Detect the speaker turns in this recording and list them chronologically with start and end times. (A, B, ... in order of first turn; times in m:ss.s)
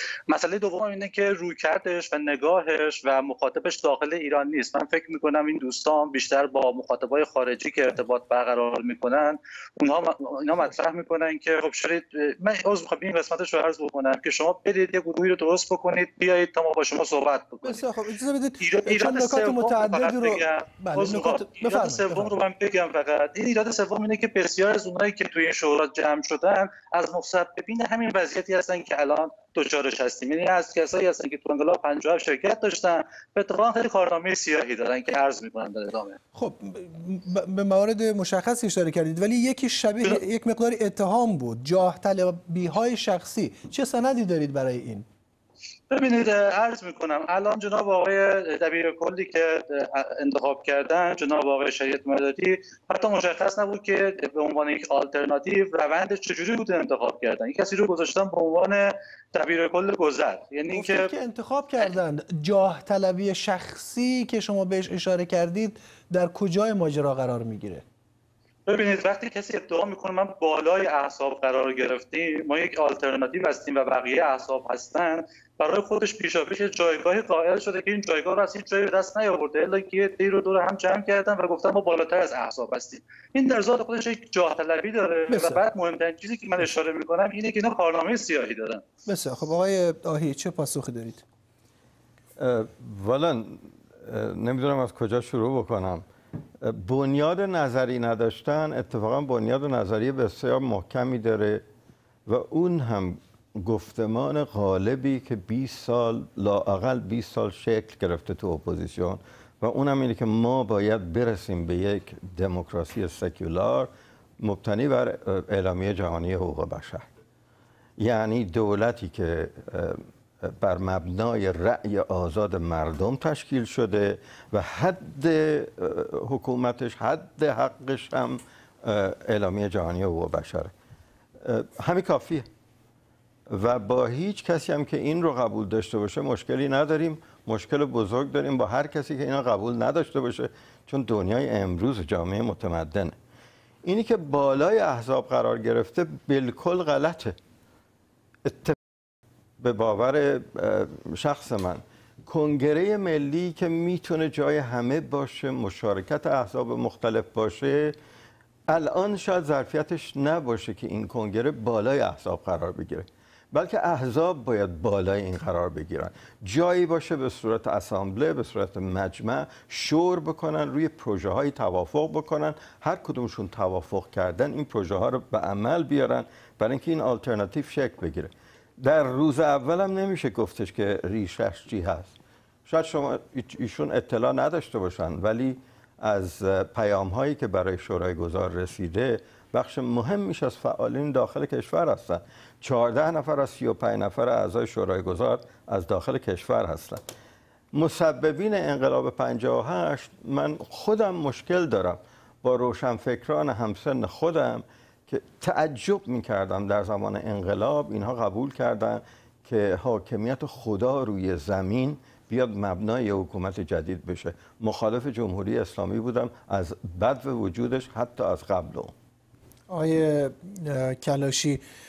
0:00.3-0:17.8 A
0:17.6-0:22.4 B
0:18.6-0:36.2 A
0:36.3-0:45.0 B
0:45.9-0:58.8 A
0:59.3-1:01.1 A
1:00.7-1:07.8 B
1:08.7-1:28.8 A
1:25.3-1:25.6 B
1:29.0-1:31.2 B
1:32.4-1:36.0 C
1:36.6-1:41.6 C
1:42.3-1:53.9 C
1:54.4-1:57.1 C
1:58.0-2:10.7 C
2:11.4-2:12.4 C
2:13.5-2:23.1 C
2:23.8-2:27.3 C
2:28.4-2:28.8 C
2:29.6-2:37.9 C
2:38.7-2:58.3 C
2:58.8-3:02.1 C
3:02.7-3:17.0 C
3:17.7-3:38.9 C
3:39.7-3:41.6 B